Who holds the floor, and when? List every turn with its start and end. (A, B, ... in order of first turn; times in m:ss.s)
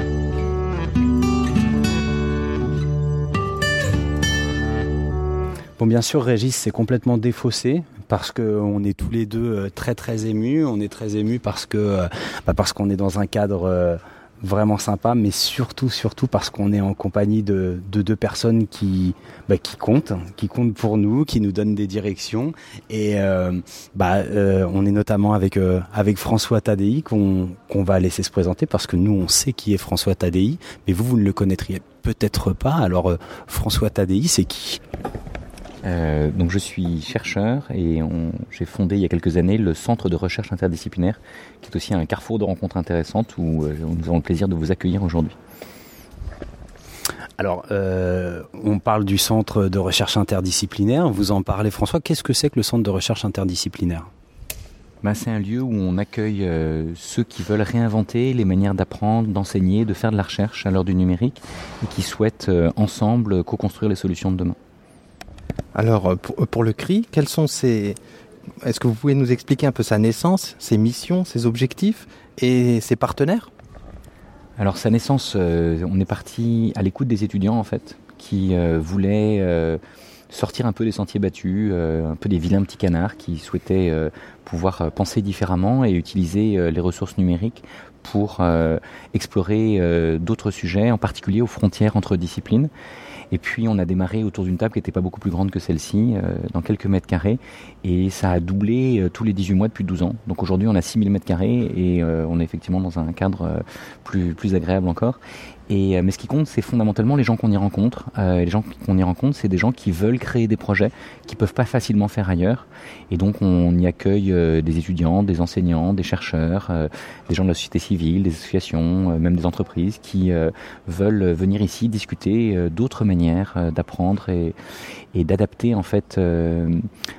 0:05.8-0:34.8 A
0:35.8-0:45.3 B
0:47.4-0:54.1 A
0:55.0-1:04.6 B
1:05.7-1:08.0 C
1:08.6-1:13.5 C
1:14.6-1:32.7 B
1:33.3-2:04.6 B
2:05.1-2:06.8 B